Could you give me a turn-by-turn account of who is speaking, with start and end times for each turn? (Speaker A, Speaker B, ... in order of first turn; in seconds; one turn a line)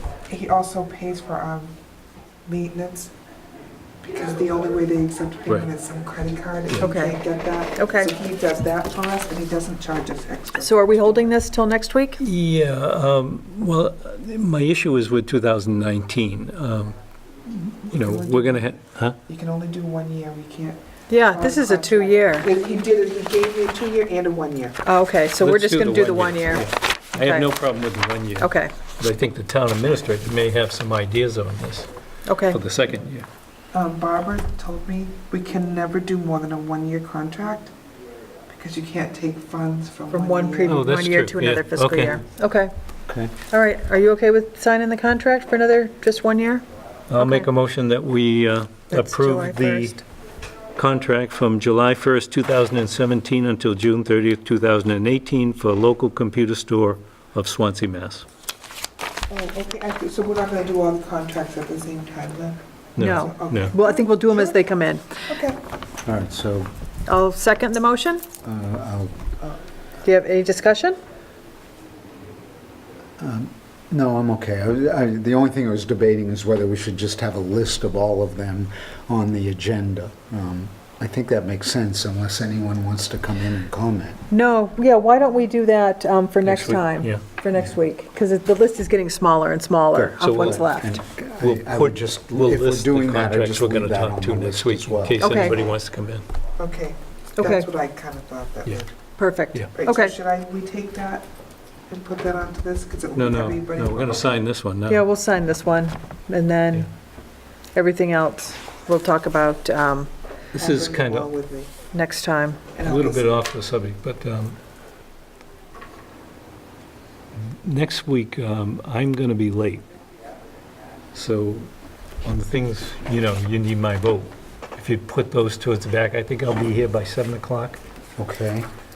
Speaker A: 0.3-1.8
Speaker A: 2.5-3.1
Speaker A: 4.0-11.3
Speaker B: 6.8-7.2
Speaker B: 7.8-8.1
Speaker B: 10.6-12.2
Speaker C: 12.2-17.0
Speaker C: 17.5-19.2
Speaker A: 17.8-24.8
Speaker B: 21.1-22.5
Speaker B: 24.8-27.5
Speaker C: 25.4-31.9
Speaker B: 28.4-28.7
Speaker B: 32.3-32.6
Speaker C: 32.5-33.3
Speaker A: 33.7-37.7
Speaker A: 38.5-40.8
Speaker B: 40.1-42.7
Speaker C: 40.6-42.2
Speaker D: 43.1-43.3
Speaker B: 43.5-46.6
Speaker C: 47.1-50.0
Speaker B: 47.2-47.5
Speaker B: 48.9-50.0
Speaker C: 50.8-58.3
Speaker A: 59.3-64.6
Speaker C: 63.0-63.8
Speaker B: 63.0-65.3
Speaker A: 65.3-65.6
Speaker D: 66.0-66.7
Speaker B: 67.1-68.2
Speaker D: 68.4-69.3
Speaker B: 70.0-71.0
Speaker D: 73.2-84.2
Speaker B: 84.3-91.0
Speaker C: 86.4-87.2
Speaker C: 89.9-90.7
Speaker D: 90.4-95.4
Speaker C: 91.4-96.2
Speaker B: 95.2-95.6
Speaker A: 96.6-98.9
Speaker B: 97.4-97.7
Speaker B: 99.2-100.2
Speaker A: 99.7-101.3
Speaker A: 101.9-104.3
Speaker C: 103.2-105.0
Speaker B: 104.9-106.9
Speaker B: 107.7-110.1
Speaker C: 110.5-111.3
Speaker A: 110.5-111.8
Speaker B: 111.9-112.7
Speaker A: 112.7-113.4
Speaker C: 112.8-114.6
Speaker C: 117.5-119.8
Speaker C: 121.1-121.7
Speaker C: 122.2-127.8
Speaker D: 128.2-128.7